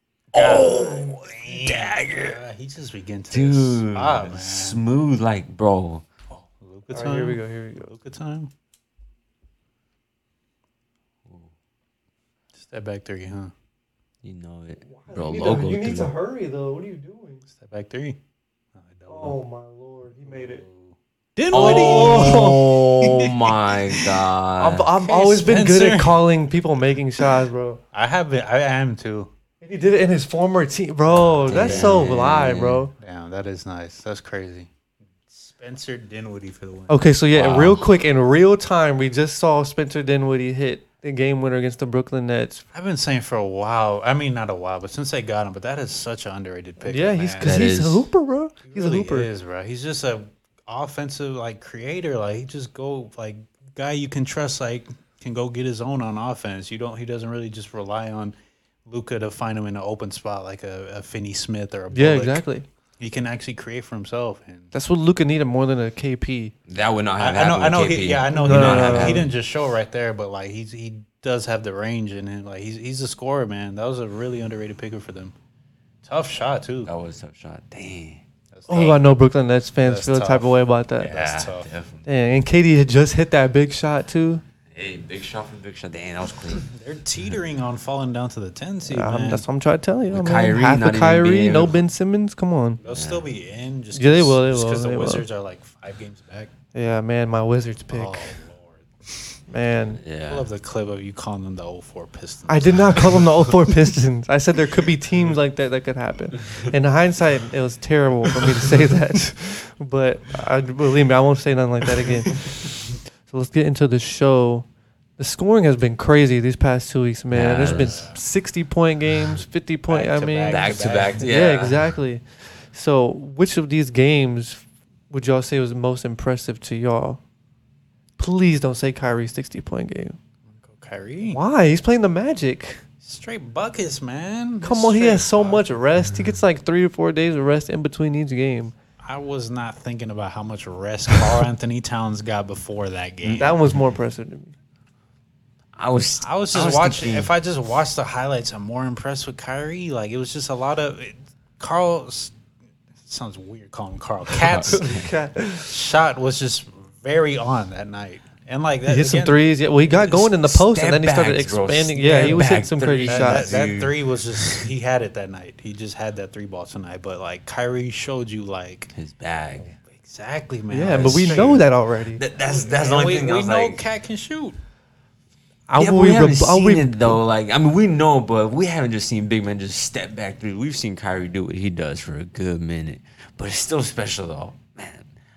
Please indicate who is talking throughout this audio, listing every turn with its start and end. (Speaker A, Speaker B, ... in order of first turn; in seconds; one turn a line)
Speaker A: 0.3-4.8
Speaker B: 0.3-2.4
Speaker B: 3.3-6.1
Speaker A: 6.3-8.5
Speaker C: 6.9-7.9
Speaker A: 12.6-13.5
Speaker B: 14.2-16.1
Speaker C: 14.8-17.4
Speaker A: 17.6-18.2
Speaker A: 18.8-19.4
Speaker C: 19.1-20.6
Speaker A: 20.3-24.2
Speaker C: 21.5-22.7
Speaker B: 21.5-24.9
Speaker C: 24.6-27.8
Speaker A: 25.0-26.2
Speaker A: 27.9-29.3
Speaker C: 29.6-32.9
Speaker A: 31.4-32.0
Speaker B: 31.4-32.8
Speaker A: 33.0-34.7
Speaker A: 35.3-37.0
Speaker C: 36.9-42.6
Speaker B: 37.3-37.8
Speaker A: 42.7-47.5
Speaker C: 46.8-49.3
Speaker B: 47.4-48.0
Speaker A: 48.6-62.4
Speaker C: 61.9-62.6
Speaker A: 63.0-64.7
Speaker C: 64.7-66.5
Speaker B: 66.7-69.3
Speaker A: 67.2-75.3
Speaker C: 68.3-69.3
Speaker A: 76.0-76.9
Speaker B: 76.8-78.2
Speaker A: 78.5-79.2
Speaker C: 78.7-81.3
Speaker A: 79.8-81.7
Speaker B: 81.0-82.0
Speaker C: 82.1-84.4
Speaker B: 84.7-86.7
Speaker A: 86.6-89.4
Speaker C: 88.9-92.8
Speaker B: 90.1-91.8
Speaker A: 92.8-96.5
Speaker B: 92.9-93.3
Speaker C: 93.9-95.2
Speaker C: 96.7-98.3
Speaker A: 97.9-99.4
Speaker C: 99.5-100.0
Speaker B: 100.0-100.5
Speaker A: 100.3-103.7
Speaker C: 102.5-114.7
Speaker C: 115.2-127.2
Speaker B: 117.3-118.0
Speaker A: 117.7-118.2
Speaker A: 119.9-121.3
Speaker B: 120.5-122.0
Speaker C: 128.2-130.2
Speaker A: 130.6-131.4
Speaker C: 131.3-132.8
Speaker A: 133.0-135.7
Speaker C: 134.6-138.7
Speaker A: 139.0-143.6
Speaker C: 143.3-144.5
Speaker B: 145.8-147.3
Speaker A: 146.2-152.3
Speaker A: 153.1-154.9
Speaker B: 154.4-155.1
Speaker C: 154.7-155.7
Speaker A: 155.6-159.4
Speaker C: 158.9-163.5
Speaker B: 160.0-164.7
Speaker A: 162.0-162.5
Speaker A: 163.1-168.9
Speaker B: 168.9-169.8
Speaker A: 169.8-171.6
Speaker C: 170.7-172.2
Speaker B: 172.1-173.8
Speaker A: 172.5-174.6
Speaker C: 175.7-177.2
Speaker B: 175.8-185.1